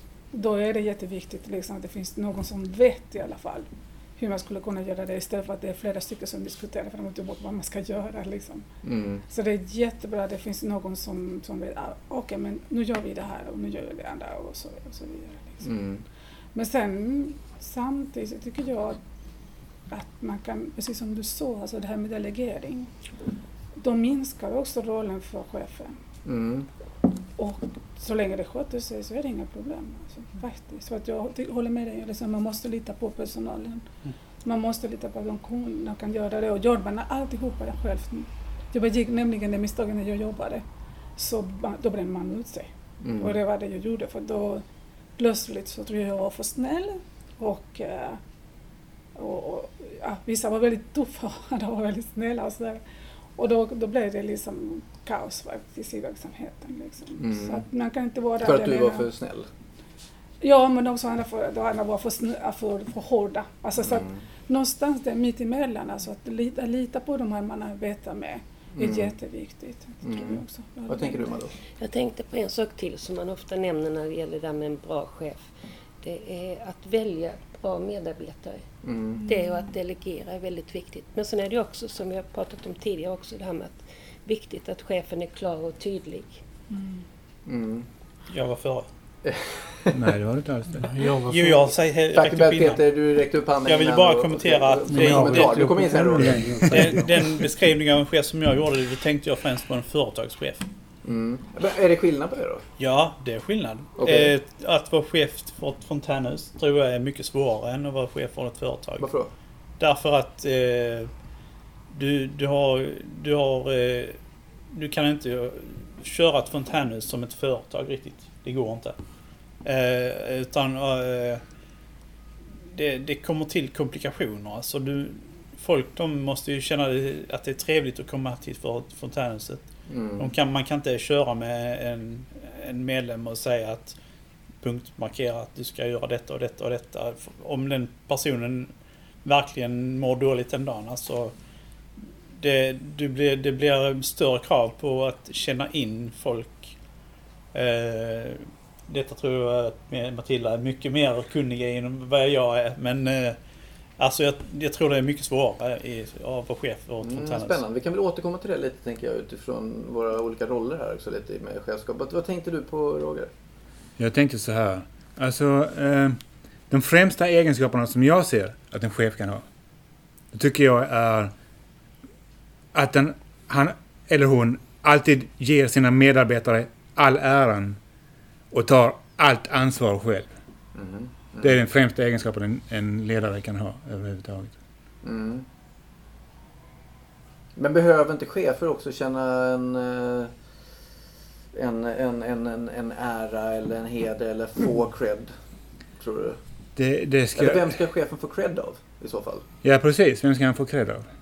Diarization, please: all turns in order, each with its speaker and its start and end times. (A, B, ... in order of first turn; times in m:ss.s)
0:00.3-0:08.6 A
0:08.8-0:09.2 B
0:09.3-0:15.6 A
0:15.6-0:16.0 B
0:16.6-0:19.0 A
0:19.9-0:22.9 A
0:23.8-0:26.0 A
0:26.2-0:26.7 B
0:27.4-0:33.9 A
0:34.4-0:40.6 A
0:41.2-0:44.6 A
0:43.0-0:43.4 B
0:45.2-0:48.2 A
0:49.2-0:52.8 A
0:53.4-0:59.1 A
0:57.2-0:57.6 B
0:58.4-0:59.5 B
1:00.4-1:11.4 A
1:03.8-1:04.2 B
1:08.7-1:09.1 B
1:10.0-1:11.5 B
1:11.8-1:18.6 C
1:18.8-1:19.2 B
1:19.2-1:26.4 C
1:26.7-1:27.0 A
1:27.4-1:27.9 B
1:28.3-1:28.9 D
1:29.2-1:29.9 B
1:29.9-1:30.9 E
1:30.8-1:31.7 F
1:31.3-1:32.9 D
1:32.1-1:36.9 B
1:33.6-1:35.7 D
1:34.9-1:37.3 F
1:36.7-1:40.6 D
1:41.0-1:42.6 B
1:42.8-1:49.1 D
1:44.0-1:44.3 B
1:49.0-1:49.3 B
1:49.8-1:51.1 D
1:51.9-1:54.2 D
1:54.7-1:59.0 D
1:59.6-2:01.4 D
2:02.7-2:09.6 D
2:09.9-2:10.3 B
2:10.2-2:14.0 D
2:14.6-2:18.7 D
2:19.2-2:21.3 D
2:22.4-2:26.7 D
2:27.5-2:33.4 D
2:34.0-2:37.6 D
2:37.0-2:43.3 B
2:44.0-2:46.2 E
2:46.7-2:49.4 E
2:50.3-2:51.3 E
2:52.7-2:57.8 E
2:58.5-3:00.3 E
3:00.8-3:01.6 B
3:01.4-3:04.5 E
3:05.0-3:05.4 B
3:07.6-3:10.3 B
3:11.5-3:15.3 B
3:16.0-3:16.4 B
3:16.8-3:17.8 E
3:17.4-3:19.4 B
3:19.6-3:21.0 E